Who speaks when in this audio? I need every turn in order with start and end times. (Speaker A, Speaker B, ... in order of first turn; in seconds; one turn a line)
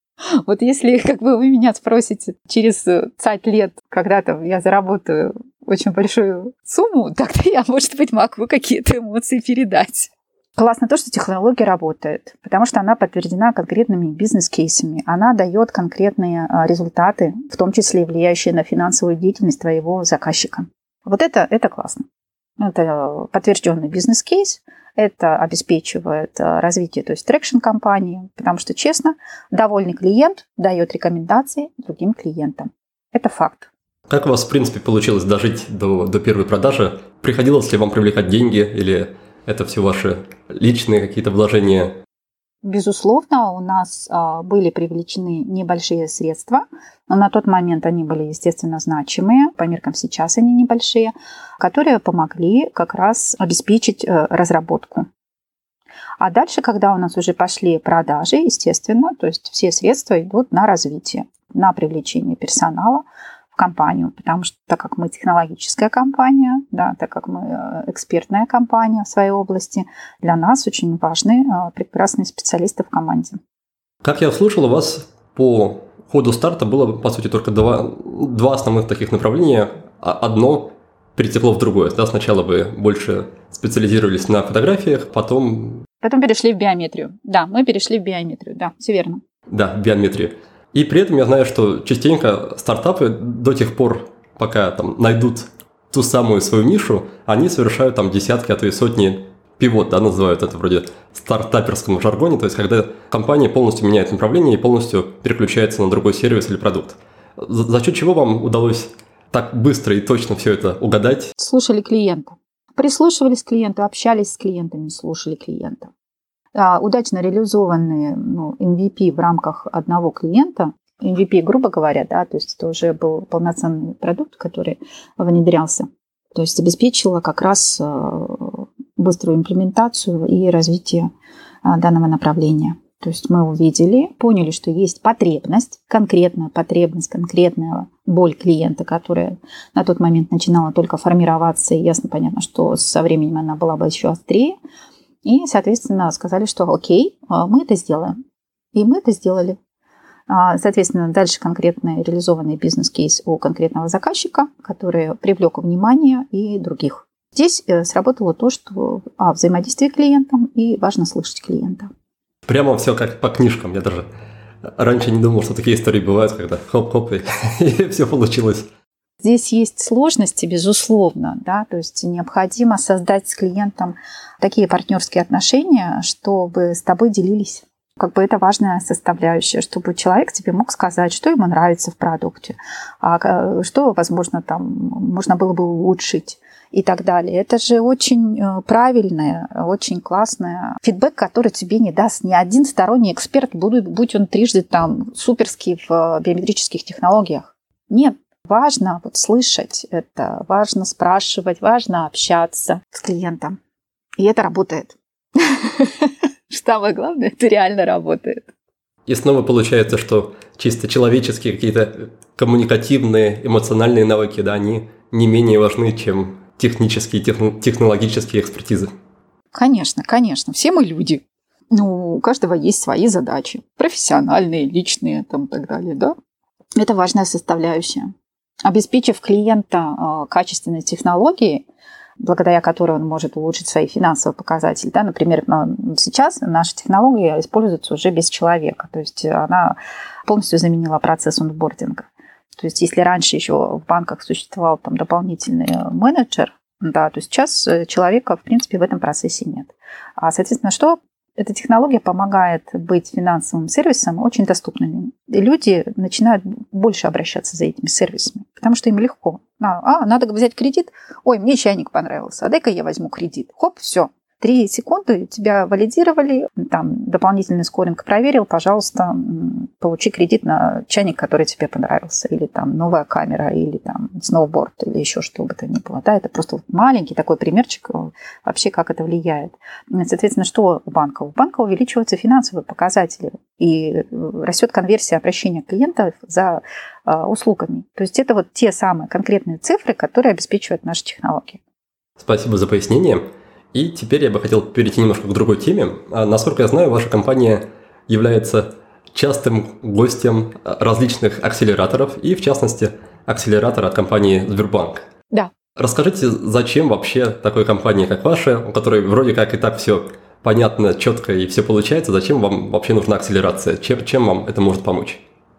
Speaker A: 0.3-22.0
Speaker A: 22.6-33.7
Speaker B: 34.1-42.0
Speaker A: 42.6-55.1
Speaker A: 56.2-63.0
Speaker A: 63.5-73.4
Speaker B: 74.0-85.9
Speaker A: 86.0-89.2
Speaker B: 89.5-111.3
Speaker A: 111.4-115.9
Speaker A: 116.5-131.1
Speaker A: 131.6-144.6
Speaker A: 145.2-148.2
Speaker A: 148.7-149.6
Speaker A: 150.3-161.9
Speaker B: 162.5-164.1
Speaker B: 164.8-168.7
Speaker A: 169.2-203.6
Speaker A: 204.2-208.5
Speaker B: 209.1-218.9
Speaker A: 219.5-226.2
Speaker A: 226.8-228.1
Speaker A: 228.7-231.7
Speaker A: 232.2-291.6
Speaker B: 292.2-305.0
Speaker B: 305.8-315.2